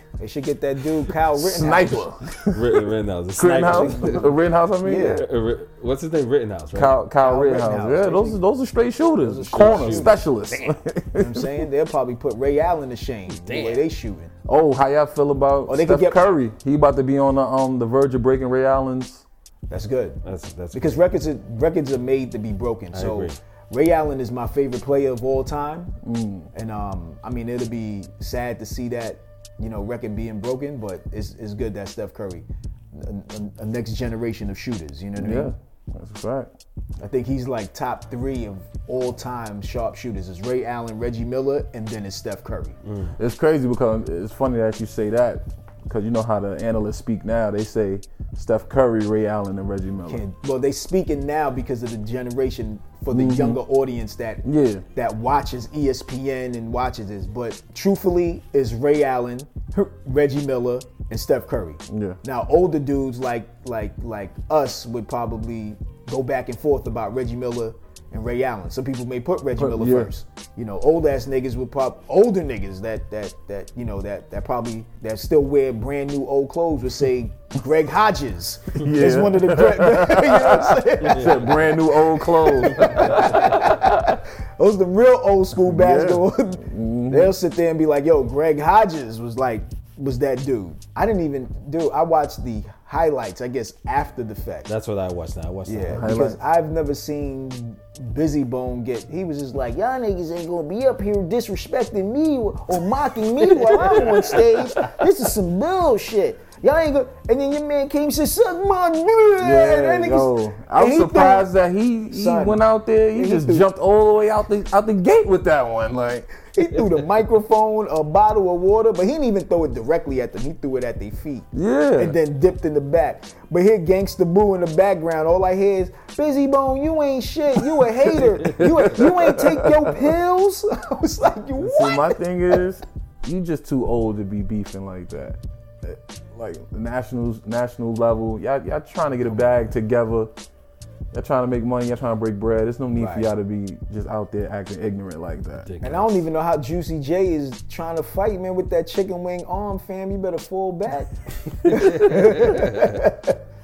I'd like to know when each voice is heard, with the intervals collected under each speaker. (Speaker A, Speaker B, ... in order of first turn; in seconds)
Speaker A: 0.2-2.1, 3.6-4.3, 4.8-5.2, 7.2-8.4, 9.2-10.2, 11.1-14.3, 15.7-16.2, 19.7-20.2, 20.7-26.0, 26.5-35.5, 37.0-42.8, 50.1-94.7, 95.7-111.5, 112.1-113.7, 116.5-132.2, 142.9-143.3, 145.8-153.3
Speaker B: 1.3-2.8, 3.4-5.2, 6.7-11.7, 14.4-19.2, 26.0-26.5, 35.2-36.5, 43.2-50.2, 53.1-53.6, 54.4-54.8, 61.9-62.2, 69.6-70.1, 78.7-84.2, 85.6-87.3, 95.9-96.4, 109.4-116.3, 121.5-122.2, 128.8-130.1, 131.6-140.3, 141.1-145.7
Speaker C: 2.5-4.3, 5.0-7.0, 9.5-10.8, 13.3-13.8, 20.2-21.0, 22.9-23.4, 42.8-43.1, 81.0-81.4, 82.8-83.5, 94.7-96.0, 103.7-104.4, 145.7-146.2, 151.6-153.1